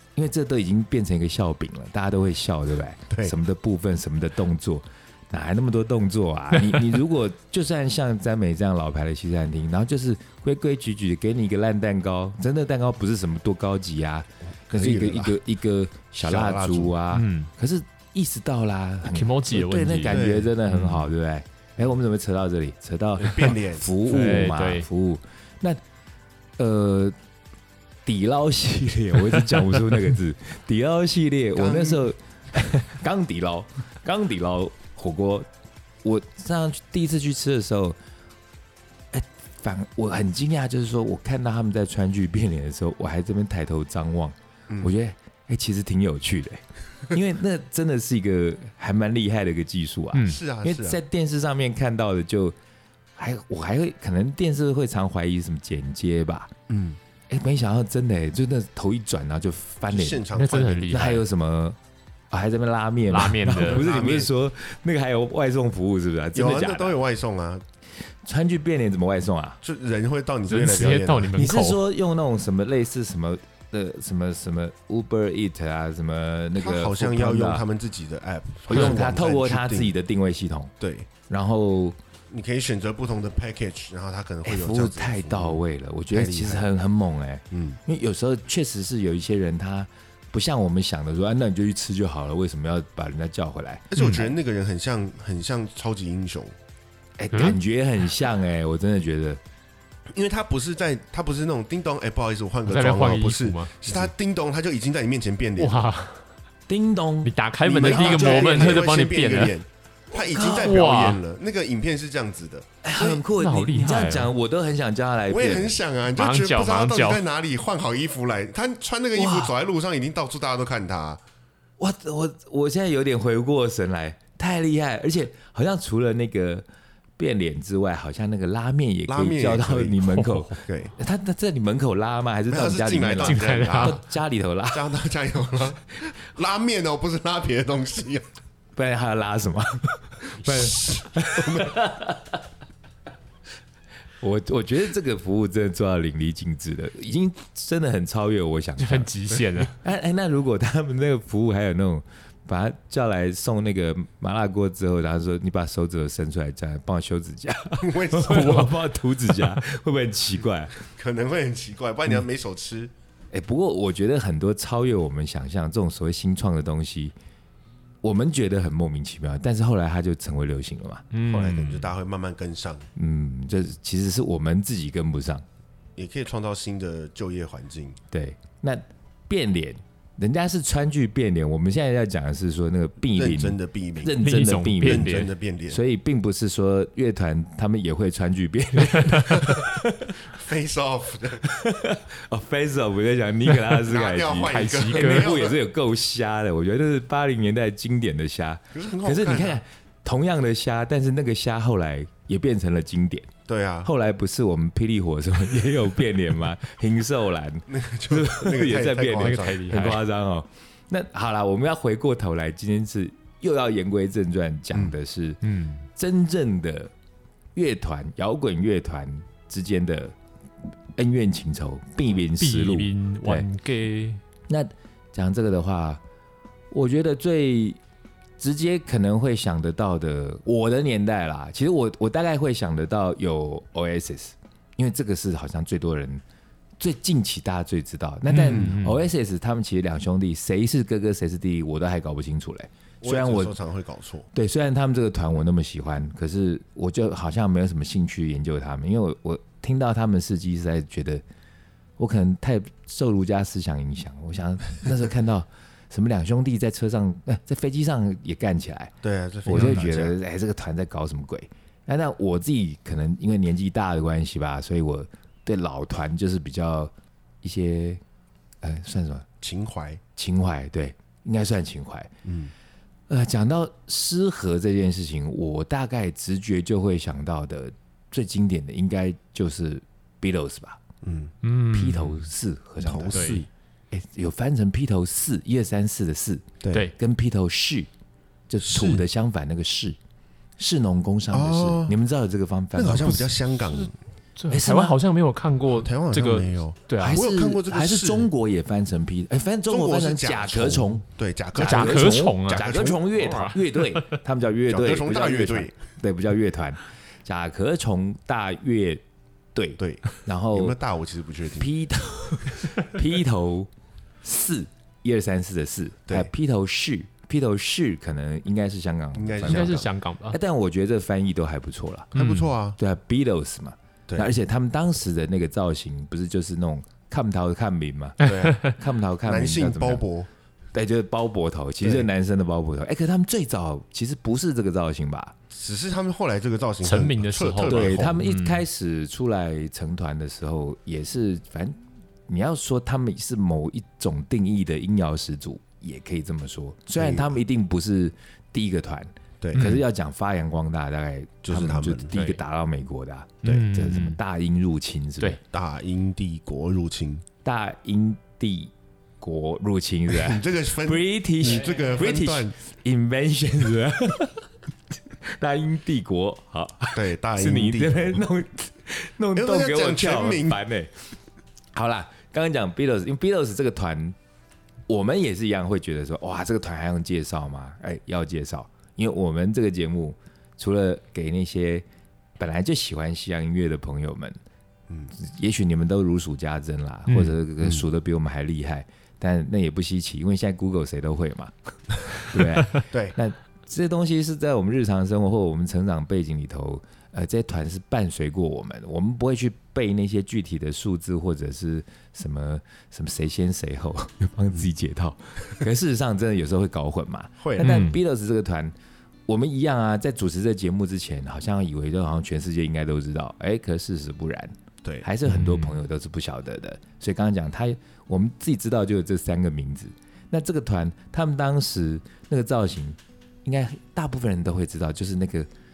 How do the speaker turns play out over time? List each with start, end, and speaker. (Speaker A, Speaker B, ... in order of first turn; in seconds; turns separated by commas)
Speaker A: 0.2-25.8, Speaker B: 14.7-15.4, Speaker B: 16.2-17.0, Speaker C: 17.1-17.5, Speaker C: 19.1-21.1, Speaker B: 20.1-20.5, Speaker B: 23.2-24.0, Speaker C: 24.1-24.9, Speaker A: 26.6-27.2, Speaker A: 28.1-35.5, Speaker B: 31.6-32.1, Speaker A: 36.0-38.0, Speaker A: 39.1-52.6, Speaker B: 50.2-51.0, Speaker A: 53.2-56.5, Speaker B: 56.7-57.0, Speaker A: 57.3-60.3, Speaker B: 59.9-61.2, Speaker C: 60.3-61.2, Speaker A: 60.9-61.8, Speaker A: 62.3-67.0, Speaker C: 63.1-64.0, Speaker B: 63.5-64.3, Speaker B: 66.3-67.6, Speaker A: 68.2-69.6, Speaker B: 69.6-71.4, Speaker C: 70.5-71.8, Speaker A: 71.3-77.7, Speaker B: 76.5-79.9, Speaker A: 78.7-80.7, Speaker B: 80.8-81.1, Speaker A: 81.3-82.0, Speaker B: 82.3-85.6, Speaker A: 84.4-93.9, Speaker B: 86.1-86.7, Speaker B: 87.5-87.8, Speaker B: 93.9-96.5, Speaker C: 94.0-94.3, Speaker A: 97.2-99.4, Speaker B: 100.1-105.8, Speaker C: 102.7-104.1, Speaker C: 105.6-106.2, Speaker A: 106.7-107.3, Speaker C: 107.2-109.6, Speaker B: 107.6-113.2, Speaker A: 107.8-108.8, Speaker A: 110.2-110.8, Speaker C: 110.4-111.2, Speaker A: 112.8-115.7, Speaker C: 113.1-114.3, Speaker B: 115.3-121.2, Speaker C: 116.2-117.2, Speaker A: 119.2-119.5, Speaker A: 121.8-126.7, Speaker A: 127.2-134.9, Speaker B: 129.1-130.1, Speaker C: 130.1-130.5, Speaker B: 130.6-130.9, Speaker B: 132.5-134.0, Speaker C: 133.2-134.0, Speaker B: 134.7-138.3, Speaker A: 138.8-142.4, Speaker B: 140.4-141.8, Speaker A: 144.2-149.1, Speaker C: 148.8-149.8, Speaker A: 149.7-160.8, Speaker B: 157.8-158.7, Speaker C: 158.3-158.7, Speaker B: 160.9-162.9, Speaker A: 163.3-167.1, Speaker A: 168.0-171.1, Speaker C: 171.1-171.9, Speaker B: 171.2-172.9, Speaker A: 173.0-175.4, Speaker B: 176.0-178.0, Speaker A: 178.1-190.2, Speaker B: 183.1-184.2, Speaker C: 184.2-185.3, Speaker B: 184.8-185.8, Speaker B: 190.3-191.5, Speaker A: 191.5-203.3, Speaker B: 193.8-195.6, Speaker C: 194.4-195.3, Speaker B: 198.7-199.6, Speaker B: 203.5-203.9, Speaker A: 203.8-215.4, Speaker B: 207.7-209.7, Speaker C: 209.1-210.0, Speaker C: 215.4-215.8, Speaker A: 215.9-216.9, Speaker A: 217.6-220.2, Speaker A: 221.0-223.5, Speaker C: 222.4-224.2, Speaker A: 224.5-226.0, Speaker A: 226.7-227.8, Speaker A: 228.4-236.2, Speaker A: 236.8-243.6, Speaker C: 238.3-239.0, Speaker B: 243.0-244.3, Speaker A: 244.3-251.2, Speaker A: 252.0-258.9, Speaker B: 259.0-260.2, Speaker A: 259.4-268.0, Speaker A: 268.6-269.3, Speaker B: 269.4-270.0, Speaker A: 270.2-272.1, Speaker B: 272.2-272.5, Speaker A: 273.1-280.8, Speaker B: 281.0-281.3, Speaker C: 281.4-282.3, Speaker A: 281.7-287.9, Speaker B: 282.8-283.5, Speaker C: 283.1-283.4, Speaker B: 286.6-286.9, Speaker A: 288.5-290.0, Speaker B: 288.6-289.0, Speaker A: 290.6-293.3, Speaker B: 291.3-292.0, Speaker B: 292.8-293.9, Speaker C: 294.4-297.2, Speaker A: 294.5-295.0, Speaker B: 295.7-298.3, Speaker A: 297.0-301.0, Speaker B: 299.7-303.3, Speaker A: 301.6-309.0, Speaker C: 301.6-304.1, Speaker B: 304.7-305.8, Speaker A: 309.5-310.8, Speaker B: 309.8-311.7, Speaker A: 311.6-313.7, Speaker A: 314.2-322.1, Speaker B: 319.1-319.9, Speaker C: 319.4-320.4, Speaker B: 322.1-322.8, Speaker C: 322.1-322.5, Speaker A: 322.8-330.0, Speaker B: 328.2-328.7, Speaker C: 328.2-328.7, Speaker B: 329.2-330.3, Speaker A: 330.7-335.4, Speaker B: 331.8-332.1, Speaker B: 335.5-338.2, Speaker C: 336.8-338.6, Speaker A: 337.7-355.4, Speaker B: 347.0-347.4, Speaker B: 349.4-349.8, Speaker C: 349.6-349.8, Speaker B: 351.4-352.1, Speaker C: 352.1-352.4, Speaker C: 353.4-354.2, Speaker B: 355.5-357.2, Speaker A: 357.4-364.5, Speaker B: 360.1-362.6, Speaker A: 365.2-370.9, Speaker B: 366.9-368.2, Speaker B: 369.4-370.6, Speaker A: 371.7-374.2, Speaker A: 374.9-381.9, Speaker A: 382.4-384.4, Speaker A: 385.1-408.7, Speaker C: 387.1-387.3, Speaker B: 392.9-393.2, Speaker B: 407.4-407.7, Speaker C: 407.6-408.0, Speaker A: 409.3-425.5, Speaker C: 415.2-415.8